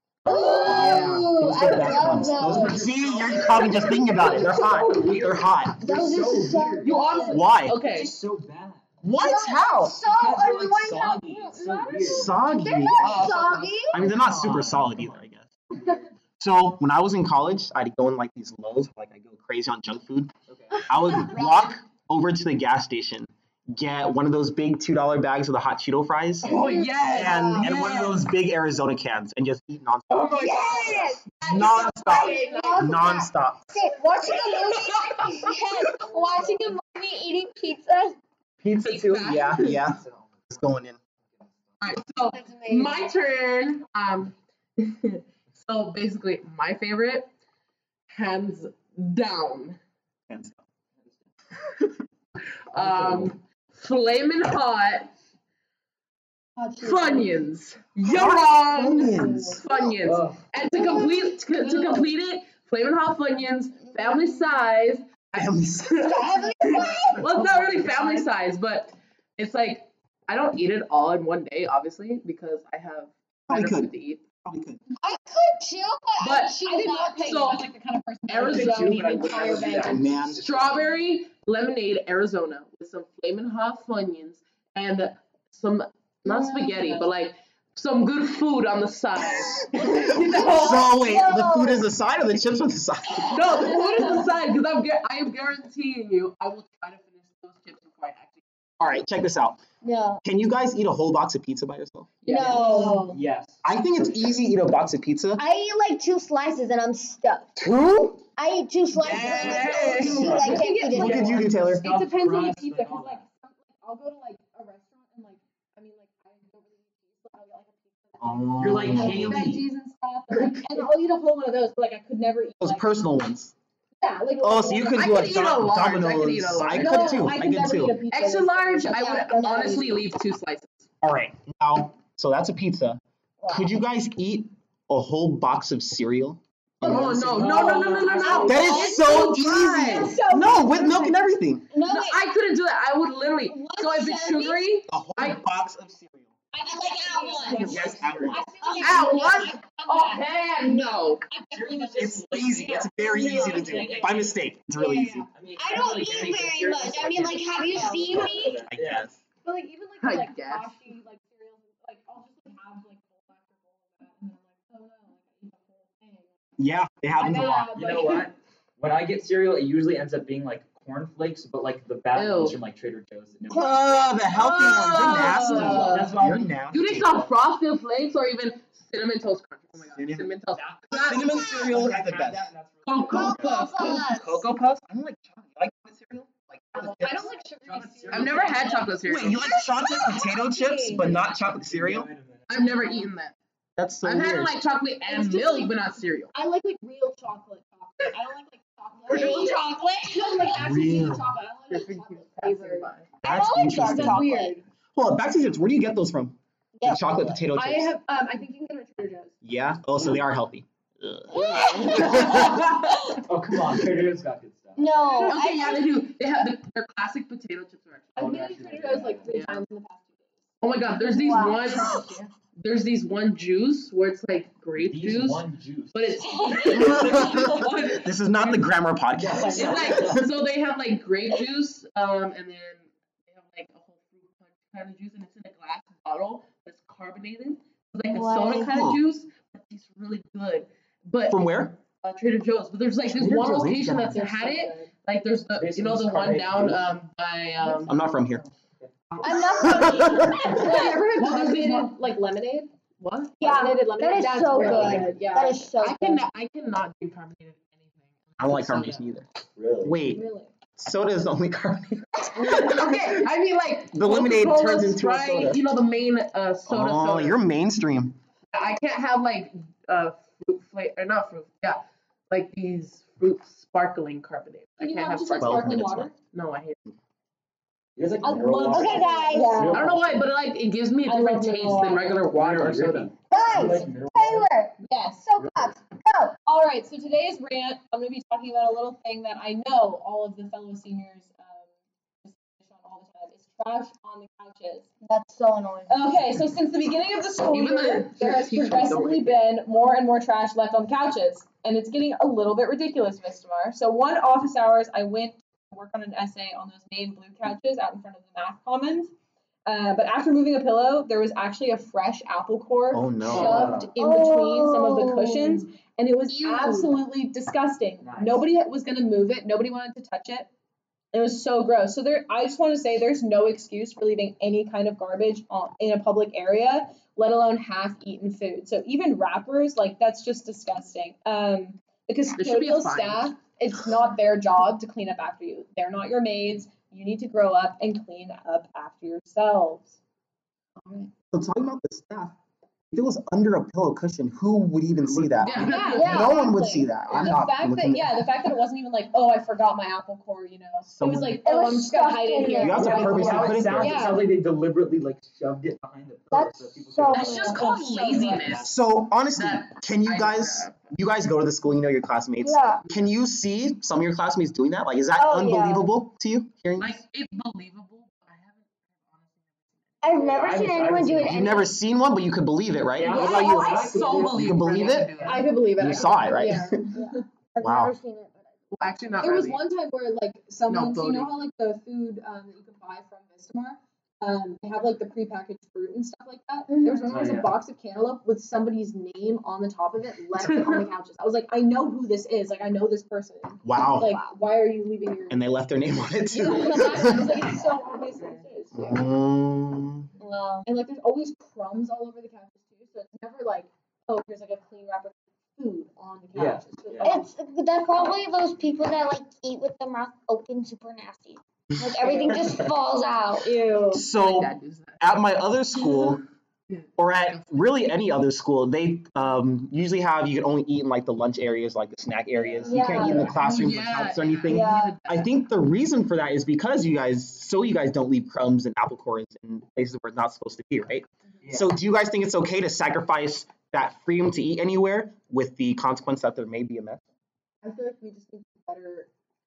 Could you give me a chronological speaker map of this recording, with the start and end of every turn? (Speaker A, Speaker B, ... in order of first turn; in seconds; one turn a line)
Speaker A: 0.3-1.0
Speaker B: 0.3-2.9
Speaker C: 0.6-7.0
Speaker D: 0.6-6.5
Speaker B: 3.6-4.5
Speaker B: 5.8-7.5
Speaker A: 6.8-8.1
Speaker D: 7.3-7.8
Speaker C: 7.7-8.9
Speaker D: 9.0-10.1
Speaker B: 9.2-14.1
Speaker C: 10.1-12.3
Speaker E: 11.1-12.2
Speaker D: 12.1-13.3
Speaker C: 13.0-16.1
Speaker D: 13.9-15.5
Speaker D: 16.4-20.3
Speaker C: 20.5-20.9
Speaker D: 20.8-33.7
Speaker B: 21.2-21.8
Speaker A: 26.4-28.2
Speaker B: 26.4-27.8
Speaker B: 30.3-31.2
Speaker C: 30.5-31.1
Speaker A: 31.3-33.0
Speaker B: 31.9-38.2
Speaker D: 38.6-41.0
Speaker A: 38.8-39.8
Speaker C: 39.2-40.5
Speaker C: 41.4-41.8
Speaker A: 41.8-47.3
Speaker B: 42.3-43.1
Speaker A: 48.1-49.8
Speaker D: 50.3-50.6
Speaker A: 52.7-55.1
Speaker C: 52.8-53.4
Speaker B: 56.6-57.2
Speaker A: 56.8-74.2
Speaker D: 58.0-59.6
Speaker B: 58.9-59.9
Speaker C: 60.0-60.5
Speaker B: 60.8-61.1
Speaker E: 61.5-62.1
Speaker D: 65.3-67.5
Speaker B: 66.1-67.3
Speaker E: 67.3-68.3
Speaker D: 73.5-73.9
Speaker D: 74.4-74.8
Speaker B: 75.0-77.5
Speaker A: 76.2-77.7
Speaker E: 76.6-80.0
Speaker A: 78.3-79.9
Speaker C: 78.4-80.9
Speaker D: 79.8-80.5
Speaker A: 80.4-90.9
Speaker E: 86.2-87.1
Speaker B: 90.2-91.9
Speaker D: 90.3-93.8
Speaker B: 93.2-94.1
Speaker A: 93.3-98.8
Speaker D: 98.8-99.6
Speaker B: 99.8-100.2
Speaker D: 100.2-102.1
Speaker A: 102.2-103.0
Speaker C: 102.3-104.4
Speaker E: 102.3-103.2
Speaker B: 102.4-103.1
Speaker D: 103.6-105.4
Speaker B: 105.4-107.7
Speaker D: 107.6-108.2
Speaker B: 108.4-111.4
Speaker D: 109.0-111.8
Speaker C: 109.0-113.2
Speaker A: 109.3-110.7
Speaker E: 110.0-122.9
Speaker D: 118.2-119.5
Speaker C: 118.6-119.7
Speaker A: 120.3-120.8
Speaker D: 122.6-123.5
Speaker E: 124.0-125.5
Speaker D: 124.4-128.0
Speaker A: 124.9-127.3
Speaker E: 126.7-130.0
Speaker A: 128.1-130.9
Speaker B: 128.9-129.9
Speaker D: 131.0-137.6
Speaker B: 133.4-133.8
Speaker C: 136.8-138.7
Speaker A: 136.8-139.0
Speaker E: 137.6-141.2
Speaker B: 138.4-139.3
Speaker D: 138.5-141.7
Speaker B: 141.7-142.3
Speaker A: 141.8-145.4
Speaker B: 143.6-144.6
Speaker E: 143.7-144.5
Speaker D: 144.9-146.3
Speaker E: 146.5-155.3
Speaker B: 146.6-149.7
Speaker D: 147.5-148.5
Speaker C: 147.7-148.4
Speaker A: 148.7-151.3
Speaker C: 151.5-152.9
Speaker D: 152.0-155.3
Speaker B: 153.2-153.8
Speaker C: 153.8-154.1
Speaker B: 154.8-158.6
Speaker C: 155.3-159.1
Speaker E: 157.7-158.5
Speaker D: 158.7-159.2
Speaker E: 159.4-166.4
Speaker A: 160.0-160.9
Speaker D: 166.6-167.7
Speaker E: 167.1-168.3
Speaker C: 167.8-173.9
Speaker A: 172.1-172.6
Speaker D: 173.5-177.2
Speaker A: 174.3-176.2
Speaker C: 174.8-176.5
Speaker E: 175.2-176.0
Speaker A: 176.7-181.3
Speaker D: 179.9-180.3
Speaker C: 180.5-183.6
Speaker D: 180.9-182.5
Speaker B: 181.2-181.6
Speaker A: 182.9-184.5
Speaker B: 183.1-184.4
Speaker D: 183.6-187.3
Speaker E: 186.7-189.0
Speaker C: 187.7-188.9
Speaker A: 188.1-189.5
Speaker D: 189.0-192.1
Speaker B: 189.3-191.1
Speaker C: 191.0-193.0
Speaker A: 192.5-193.4
Speaker E: 192.5-193.0
Speaker D: 193.8-194.6
Speaker A: 194.0-196.3
Speaker E: 195.1-195.7
Speaker E: 196.3-202.9
Speaker B: 199.1-200.6
Speaker D: 200.6-201.3
Speaker A: 201.7-203.2
Speaker B: 203.2-204.6
Speaker D: 203.2-204.3
Speaker E: 203.6-204.6
Speaker D: 204.9-207.9
Speaker B: 206.8-207.4
Speaker E: 207.5-209.3
Speaker D: 209.4-212.7
Speaker C: 210.0-210.2
Speaker B: 211.3-212.4
Speaker A: 211.8-213.2
Speaker C: 212.1-215.2
Speaker B: 214.8-215.9
Speaker A: 215.2-218.4
Speaker E: 218.2-220.4
Speaker C: 218.2-219.3
Speaker A: 219.3-219.6
Speaker A: 220.6-228.7
Speaker B: 221.0-222.3
Speaker E: 221.2-222.2
Speaker C: 224.8-226.2
Speaker E: 226.5-227.0
Speaker D: 226.8-230.2
Speaker C: 226.8-227.5
Speaker C: 229.2-230.2
Speaker E: 229.3-230.2
Speaker A: 229.5-248.0
Speaker B: 238.1-238.7
Speaker D: 238.6-239.0
Speaker D: 241.3-241.7
Speaker D: 243.1-244.2
Speaker E: 243.9-244.9
Speaker C: 245.6-247.0
Speaker D: 247.9-248.4
Speaker C: 247.9-249.0
Speaker E: 249.2-252.7
Speaker D: 249.2-250.5
Speaker A: 250.0-252.0
Speaker A: 253.0-253.4
Speaker B: 253.4-256.3
Speaker E: 253.4-255.7
Speaker D: 254.6-255.1
Speaker A: 255.8-259.1
Speaker D: 258.4-259.3
Speaker C: 259.6-260.0
Speaker D: 259.8-260.3
Speaker E: 260.1-260.5
Speaker D: 260.8-263.3
Speaker A: 262.4-267.4
Speaker D: 263.9-265.6
Speaker D: 266.7-268.2
Speaker A: 268.5-276.8
Speaker E: 274.8-276.1
Speaker D: 275.4-276.1
Speaker C: 278.0-280.3
Speaker E: 278.2-279.9
Speaker B: 278.7-279.8
Speaker A: 279.7-283.1
Speaker E: 281.1-282.3
Speaker C: 281.7-284.5
Speaker B: 283.3-286.4
Speaker E: 283.4-283.9
Speaker E: 284.8-285.2
Speaker C: 285.4-285.8
Speaker E: 286.4-291.7
Speaker E: 292.2-294.9
Speaker B: 295.0-296.2
Speaker E: 295.9-309.1
Speaker A: 297.5-299.4
Speaker E: 309.7-320.5
Speaker D: 312.9-313.7
Speaker C: 313.3-313.9
Speaker B: 314.0-315.6
Speaker A: 316.3-316.9
Speaker C: 318.0-318.4
Speaker E: 321.1-339.9
Speaker A: 332.4-333.3
Speaker E: 340.8-341.1
Speaker D: 341.3-342.4
Speaker D: 342.9-348.3
Speaker C: 345.0-346.0
Speaker A: 345.4-346.3
Speaker E: 345.6-354.3
Speaker B: 346.0-346.7
Speaker D: 350.9-351.4
Speaker B: 351.4-353.6
Speaker D: 352.6-354.1
Speaker C: 352.7-358.8
Speaker B: 356.3-357.6
Speaker A: 357.1-358.7
Speaker E: 357.3-358.6
Speaker D: 358.6-367.0
Speaker A: 359.4-360.8
Speaker B: 362.4-362.8
Speaker B: 365.2-365.9
Speaker A: 366.8-369.8
Speaker B: 370.0-371.7
Speaker C: 370.1-371.6
Speaker D: 371.2-375.1
Speaker C: 373.0-375.5
Speaker A: 373.1-375.5
Speaker E: 373.2-374.1
Speaker E: 375.2-377.2
Speaker D: 375.8-376.9
Speaker B: 376.9-378.5
Speaker D: 377.6-377.9
Speaker A: 378.7-379.6
Speaker E: 379.2-395.5
Speaker A: 380.7-381.4
Speaker B: 386.7-387.3
Speaker C: 387.1-387.6
Speaker A: 390.4-390.9
Speaker D: 393.6-394.2
Speaker D: 395.3-397.5
Speaker E: 396.3-399.0
Speaker D: 398.7-400.1
Speaker E: 400.2-407.3
Speaker B: 400.2-400.6
Speaker C: 406.3-407.1
Speaker B: 407.0-413.5
Speaker E: 412.0-412.5
Speaker E: 413.4-414.1
Speaker D: 413.9-416.2
Speaker A: 414.0-415.0
Speaker A: 416.7-417.4
Speaker D: 417.0-437.0
Speaker C: 422.4-423.3
Speaker B: 422.7-423.4
Speaker E: 422.8-423.3
Speaker A: 423.2-425.3
Speaker B: 424.5-425.0
Speaker C: 431.4-431.8
Speaker E: 437.6-439.1